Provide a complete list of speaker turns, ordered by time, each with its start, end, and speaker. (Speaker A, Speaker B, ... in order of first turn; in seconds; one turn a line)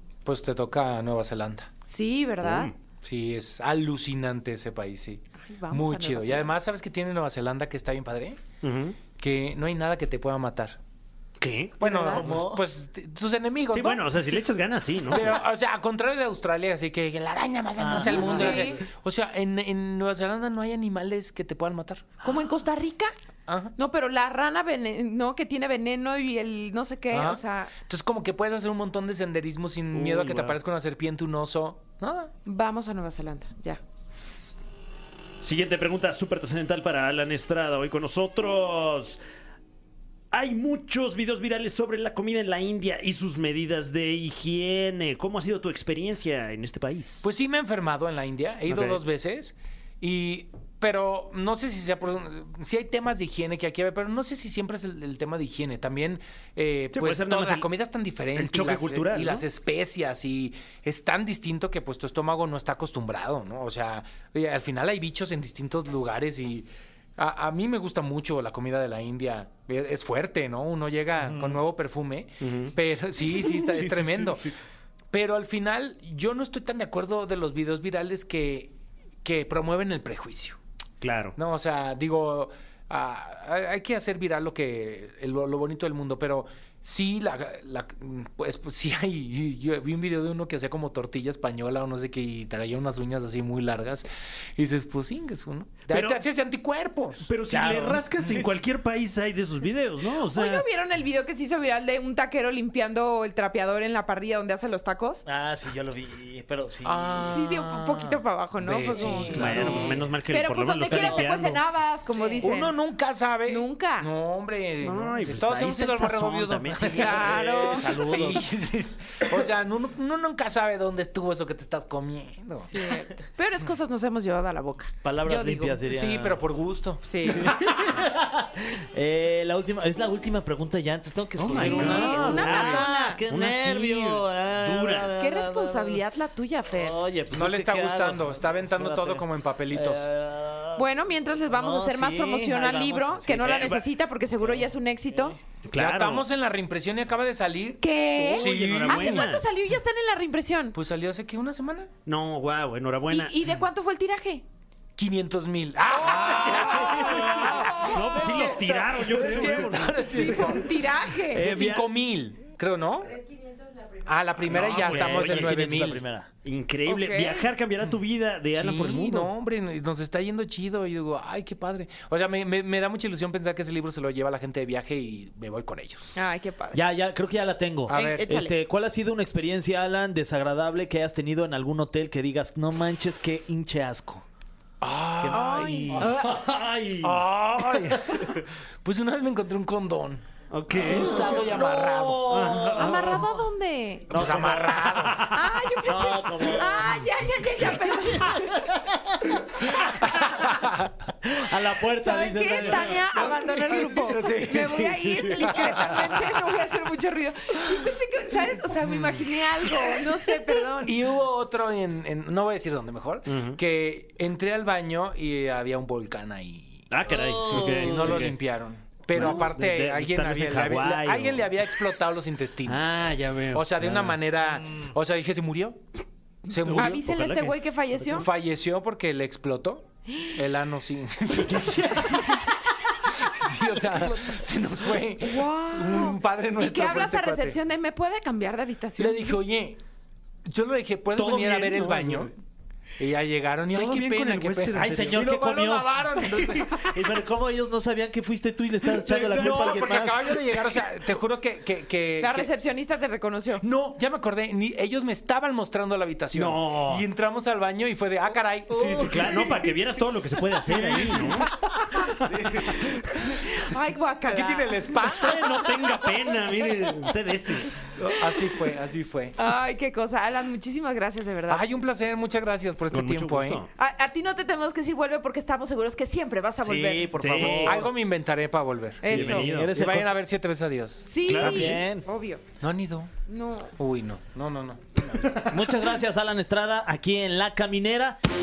Speaker A: 0.2-1.7
Speaker B: 1.9-2.7
Speaker C: 2.4-2.7
Speaker A: 3.0-8.4
Speaker B: 5.4-6.5
Speaker C: 8.6-9.0
Speaker A: 9.2-10.8
Speaker C: 11.4-12.4
Speaker A: 11.8-14.4
Speaker B: 11.8-12.2
Speaker D: 12.1-12.6
Speaker C: 13.7-15.4
Speaker A: 15.1-22.2
Speaker D: 17.8-18.7
Speaker B: 17.9-18.8
Speaker B: 22.2-23.1
Speaker A: 23.5-23.7
Speaker B: 23.8-27.7
Speaker A: 27.1-32.3
Speaker C: 29.9-30.6
Speaker B: 32.5-33.8
Speaker C: 35.4-39.2
Speaker C: 40.3-47.3
Speaker A: 47.2-74.5
Speaker C: 48.7-49.0
Speaker C: 56.9-57.7
Speaker C: 58.4-59.5
Speaker C: 72.4-72.7
Speaker C: 73.5-74.4
Speaker A: 75.1-80.6
Speaker C: 81.0-81.4
Speaker A: 81.4-97.3
Speaker C: 95.9-96.2
Speaker C: 97.3-100.7
Speaker D: 97.5-98.1
Speaker A: 98.2-98.6
Speaker B: 100.1-105.2
Speaker D: 105.3-107.3
Speaker A: 106.8-110.0
Speaker B: 107.2-112.8
Speaker D: 108.9-110.0
Speaker C: 109.3-111.6
Speaker D: 110.8-111.3
Speaker D: 112.1-112.5
Speaker A: 112.4-122.9
Speaker B: 113.5-114.1
Speaker C: 114.8-118.4
Speaker B: 117.0-118.0
Speaker D: 117.2-118.4
Speaker B: 122.6-125.8
Speaker D: 125.0-126.4
Speaker A: 125.9-128.0
Speaker B: 127.0-127.5
Speaker D: 127.2-136.0
Speaker A: 131.4-132.7
Speaker C: 131.4-135.1
Speaker B: 131.6-133.2
Speaker B: 135.2-137.0
Speaker D: 136.7-140.9
Speaker A: 137.3-140.1
Speaker B: 140.8-145.4
Speaker D: 141.4-143.8
Speaker C: 143.4-143.8
Speaker C: 145.7-146.3
Speaker A: 145.8-149.3
Speaker B: 147.8-150.8
Speaker C: 148.2-149.4
Speaker D: 148.2-148.8
Speaker A: 150.7-151.9
Speaker C: 152.1-153.5
Speaker B: 153.1-154.4
Speaker A: 155.0-160.8
Speaker B: 156.0-158.5
Speaker C: 156.0-160.6
Speaker B: 159.6-161.4
Speaker C: 161.3-161.9
Speaker A: 161.3-163.2
Speaker A: 164.1-166.0
Speaker C: 164.5-165.7
Speaker D: 164.5-166.3
Speaker C: 166.4-169.3
Speaker B: 166.9-167.5
Speaker A: 168.5-176.1
Speaker B: 176.2-176.8
Speaker D: 176.7-184.2
Speaker A: 177.9-178.3
Speaker B: 177.9-178.6
Speaker A: 184.8-186.2
Speaker D: 185.2-186.1
Speaker B: 185.3-186.1
Speaker C: 186.0-187.2
Speaker A: 187.0-190.2
Speaker C: 190.5-191.5
Speaker A: 190.8-192.5
Speaker B: 191.1-194.1
Speaker C: 192.3-193.2
Speaker D: 192.4-193.2
Speaker D: 194.1-195.2
Speaker A: 194.1-195.3
Speaker C: 195.0-195.3
Speaker B: 195.3-198.8
Speaker D: 195.8-197.1
Speaker D: 198.3-200.3
Speaker A: 199.8-200.9
Speaker D: 201.2-203.5
Speaker B: 202.0-211.0
Speaker A: 203.1-206.4
Speaker A: 210.8-225.8
Speaker C: 213.3-213.6
Speaker C: 216.9-218.4
Speaker D: 217.3-218.2
Speaker C: 219.1-221.7
Speaker B: 219.2-219.5
Speaker C: 222.7-224.2
Speaker A: 226.5-227.0
Speaker C: 226.6-227.6
Speaker B: 226.7-228.3
Speaker A: 228.1-237.6
Speaker B: 230.1-230.4
Speaker B: 235.2-239.4
Speaker A: 239.0-239.8
Speaker A: 240.5-242.3
Speaker D: 241.2-242.3
Speaker A: 243.0-247.0
Speaker C: 243.7-245.3
Speaker D: 244.8-250.7
Speaker A: 248.9-252.5
Speaker B: 252.2-253.6
Speaker A: 253.6-261.5
Speaker C: 256.3-257.1
Speaker B: 258.7-259.5
Speaker C: 259.0-261.5
Speaker A: 262.0-263.4
Speaker C: 262.1-262.6
Speaker B: 263.1-265.6
Speaker A: 264.3-265.7
Speaker C: 265.1-267.7
Speaker A: 268.0-269.4
Speaker B: 268.1-268.4
Speaker B: 269.4-271.6
Speaker A: 271.5-273.6
Speaker C: 272.9-273.7
Speaker B: 273.8-277.5
Speaker D: 276.6-277.9
Speaker C: 277.2-277.9
Speaker A: 277.4-281.1
Speaker B: 279.0-279.5
Speaker C: 279.1-279.7
Speaker D: 279.1-280.2
Speaker B: 281.1-282.4
Speaker C: 281.3-281.8
Speaker D: 281.3-282.1
Speaker A: 282.6-283.1
Speaker B: 283.3-283.7
Speaker A: 283.8-285.8
Speaker D: 285.4-288.2